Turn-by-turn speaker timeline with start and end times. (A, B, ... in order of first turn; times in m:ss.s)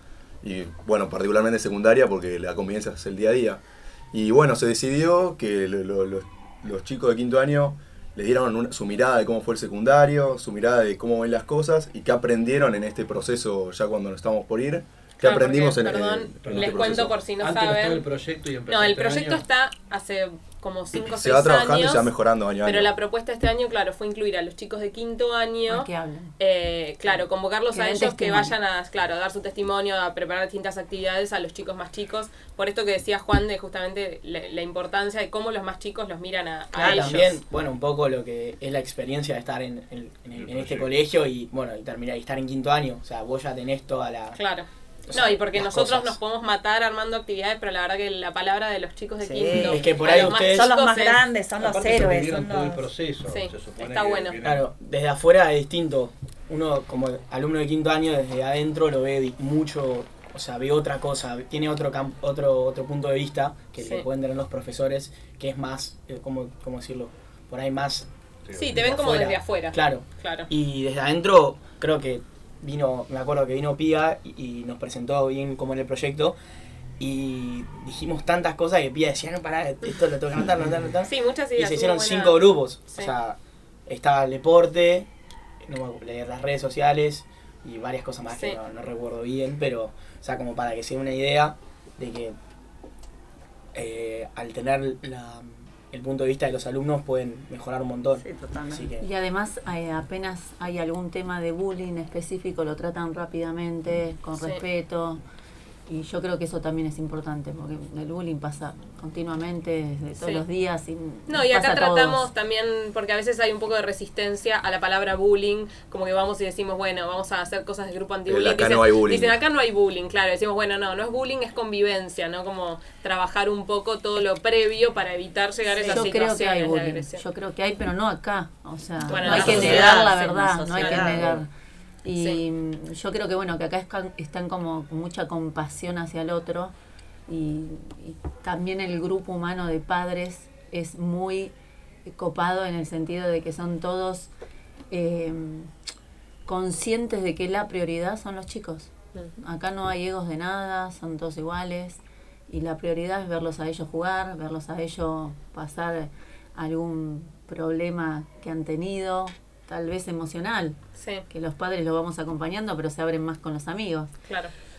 0:00.4-0:17.2 A
0:15.2-0:18.1 B
0:16.4-0:19.4 C
0:18.7-0:22.1 B
0:20.9-0:22.9 A
0:22.6-0:37.2 B
0:25.7-0:26.3 D
0:27.7-0:28.5 D
0:36.7-0:44.4 E
0:36.7-0:37.4 F
0:40.4-0:40.9 C
0:44.4-0:51.2 B
0:45.1-0:46.2 E
0:49.2-0:52.9 F
0:49.5-0:50.7 E
0:51.6-0:54.7 C
0:53.3-0:54.4 B
0:54.4-1:08.1 E
1:03.8-1:04.0 B
1:08.4-1:08.9 C
1:08.6-1:10.5 B
1:08.7-1:16.4 E
1:17.0-1:25.1 E
1:21.0-1:23.1 B
1:25.6-1:32.4 E
1:28.3-1:28.6 B
1:33.7-1:39.0 E
1:38.2-1:38.9 F
1:39.0-1:45.2 D
1:45.9-1:52.3 D
1:51.3-2:07.2 B
1:58.3-1:59.4 A
2:05.9-2:11.5 D
2:09.0-2:11.4 F
2:09.1-2:10.1 B
2:10.8-2:11.0 B
2:12.0-2:16.7 D
2:17.3-2:21.5 D
2:22.1-2:24.3 D
2:24.9-2:25.7 D
2:26.4-2:40.8 D
2:41.0-2:41.2 B
2:41.3-2:44.1 D
2:44.3-2:44.5 B